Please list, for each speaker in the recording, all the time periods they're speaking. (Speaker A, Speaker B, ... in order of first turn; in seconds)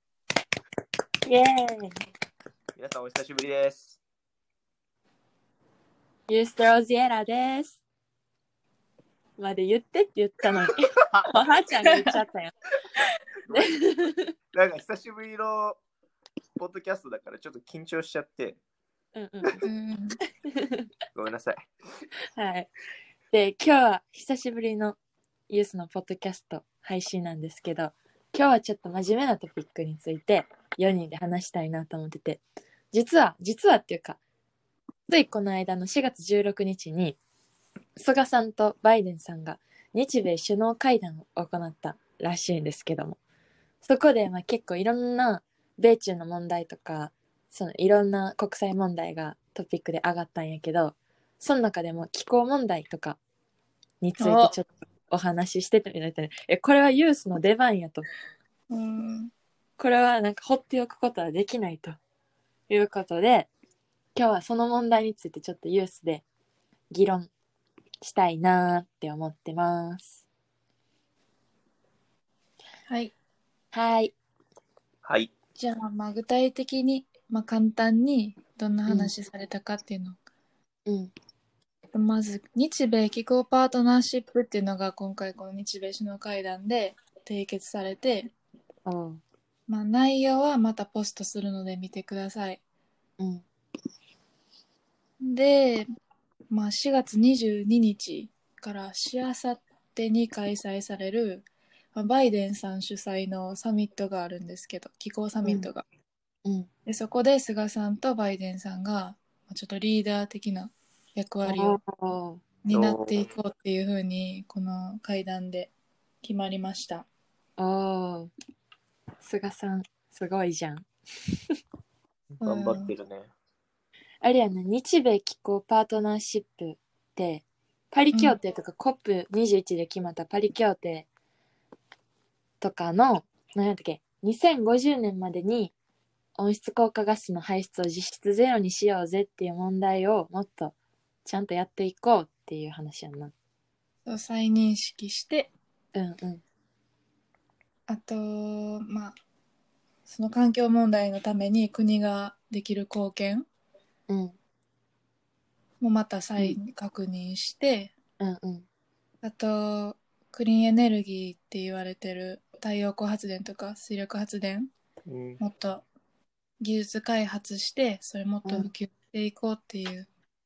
Speaker A: 1.2-1.9, 6.3-7.8, 9.4-12.5, 13.5-14.3, 19.1-19.6, 20.4-20.9, 22.4-22.7, 23.3-25.0, 25.5-34.2, 35.1-37.2, 38.0-43.2, 43.8-53.2, 54.0-58.0, 59.8-62.0, 62.7-63.5, 64.1-66.2, 66.9-67.3, 68.0-70.2, 73.7-74.1, 78.9-79.1, 80.8-81.1, 88.8-89.2, 93.2-93.4, 111.5-112.4, 117.6-118.3, 119.2-120.9, 124.2-131.1, 132.6-135.7, 136.3-143.3, 145.9-146.4, 154.1-154.3, 158.2-158.7, 168.4-168.7
Speaker B: 2.8-4.0, 11.0-11.3, 13.5-13.7, 14.5-15.8, 16.6-18.6, 21.1-21.6, 75.0-75.3, 112.7-113.3, 122.4-123.3, 165.1-165.4
Speaker C: 19.6-20.2, 54.2-54.5, 58.7-59.3, 72.9-73.1, 75.6-80.2, 81.9-88.3, 89.7-92.6, 95.2-95.9, 96.5-105.8, 106.9-111.8, 112.6-115.7, 116.2-117.0, 122.4-122.9, 144.1-145.5, 147.9-149.1, 150.1-153.4, 155.8-157.9, 159.2-164.7, 165.4-165.8, 166.6-170.1